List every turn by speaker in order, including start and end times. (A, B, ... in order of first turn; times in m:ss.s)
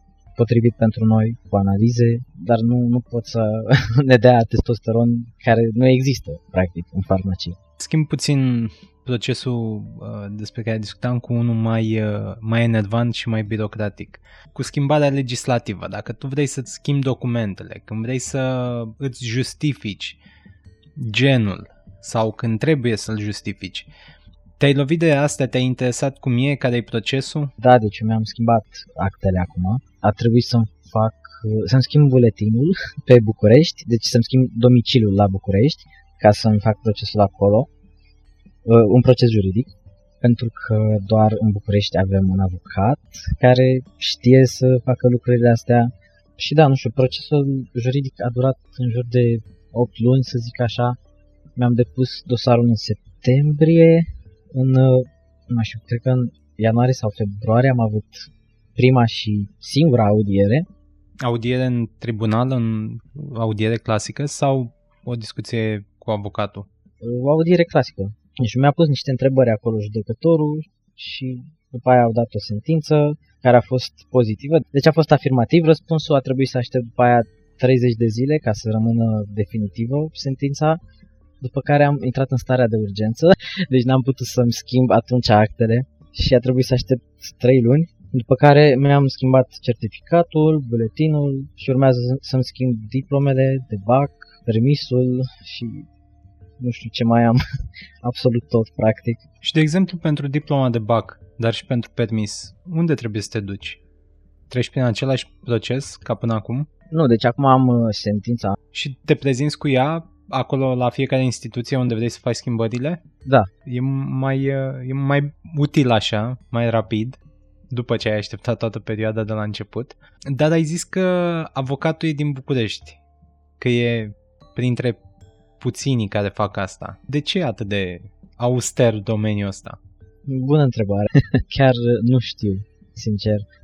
0:00.4-0:07.6 A
0:07.8-0:20.2 B
0:21.0-0:23.9 B
0:24.6-0:27.5 B
0:27.6-0:37.7 A
0:38.6-0:51.0 A
0:51.6-1:00.7 A
1:01.2-1:06.7 B
1:07.0-1:20.8 A
1:21.4-1:35.9 A
1:36.6-1:37.4 A
1:38.0-1:39.2 A
1:39.4-1:43.8 B
1:44.5-1:46.7 B
1:46.9-1:48.6 A
1:48.7-1:53.0 B
1:53.2-1:53.5 A
1:53.6-2:03.0 B
2:03.6-2:05.0 B
2:05.6-2:09.8 B
2:10.3-2:13.5 A